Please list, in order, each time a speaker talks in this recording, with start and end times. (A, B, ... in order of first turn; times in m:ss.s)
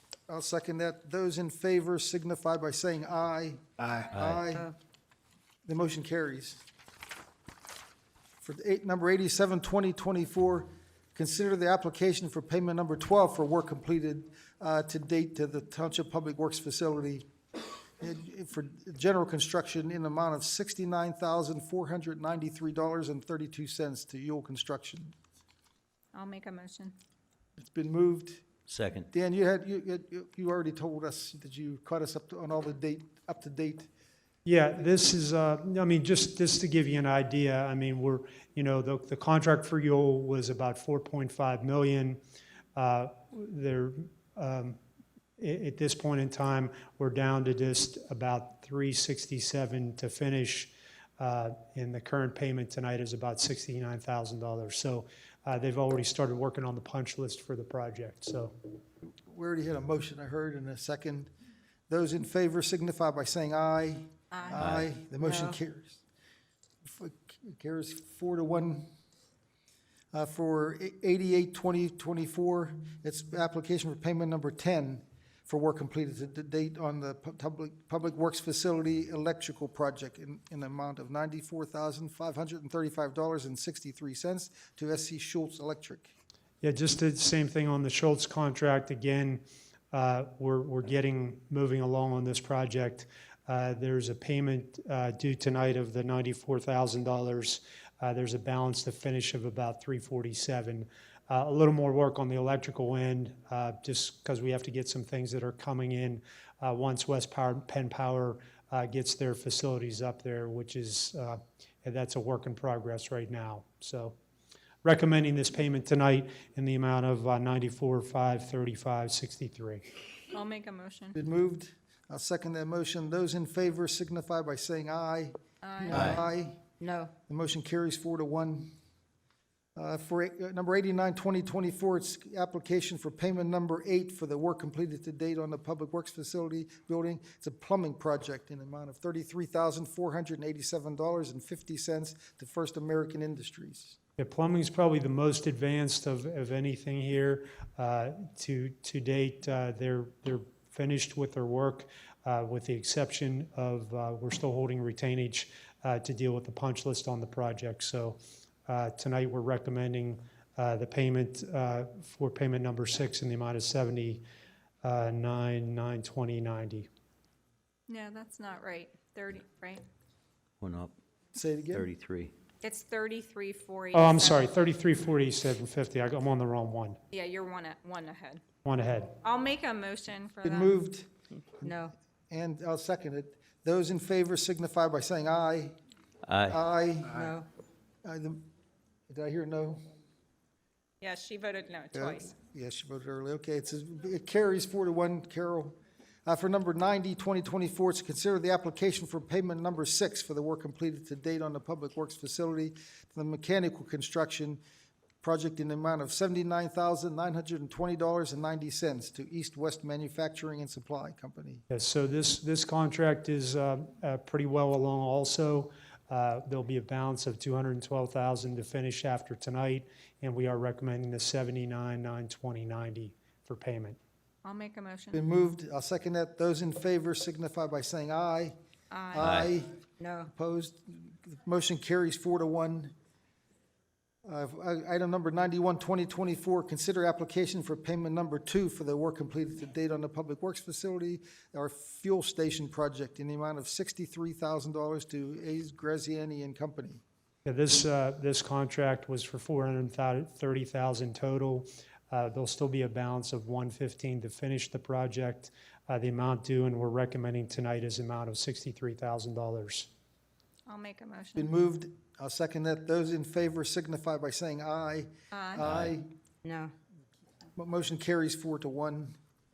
0:00.3-0:04.7 A
0:04.1-0:04.5 B
0:05.6-0:06.6 A
0:08.4-0:17.3 A
0:18.0-0:25.1 A
0:26.1-0:26.9 C
0:27.6-0:28.5 A
0:28.7-0:29.1 B
0:29.1-0:33.9 A
0:34.4-0:42.2 D
0:42.8-0:44.8 D
0:45.4-0:58.5 D
0:59.0-1:01.3 A
1:01.9-1:06.0 A
1:04.3-1:04.6 C
1:04.6-1:04.9 B
1:05.2-1:05.5 E
1:06.8-1:08.9 A
1:10.1-1:26.1 A
1:26.6-1:54.2 D
1:54.8-1:59.8 D
2:00.3-2:01.2 C
2:01.1-2:06.6 A
2:05.6-2:06.1 C
2:05.9-2:06.2 B
2:06.8-2:07.1 E
2:07.3-2:08.7 A
2:09.8-2:24.0 A
2:24.2-2:44.2 D
2:44.8-2:46.9 D
2:47.9-2:49.8 C
2:50.6-2:50.9 B
2:51.3-2:51.9 A
2:51.7-2:52.3 B
2:52.6-2:54.5 C
2:53.9-2:57.0 D
2:57.1-2:58.4 C
2:58.6-2:59.2 D
2:59.2-3:00.7 C
3:00.4-3:05.8 A
3:01.6-3:01.9 E
3:06.2-3:06.6 B
3:06.4-3:07.3 A
3:07.2-3:07.5 E
3:08.0-3:08.5 A
3:09.1-3:09.8 A
3:11.0-3:12.3 C
3:11.9-3:24.6 A
3:25.2-3:31.6 A
3:31.7-3:44.0 D
3:44.4-3:45.2 C
3:45.1-3:48.5 A
3:48.9-3:49.3 C
3:49.1-3:52.9 A
3:49.2-3:49.5 B
3:50.0-3:50.3 E
3:54.2-4:07.0 A
4:07.4-4:19.9 D
4:20.7-4:21.5 C
4:21.4-4:26.1 A
4:25.3-4:25.8 C
4:26.4-4:26.7 E
4:27.6-4:29.1 A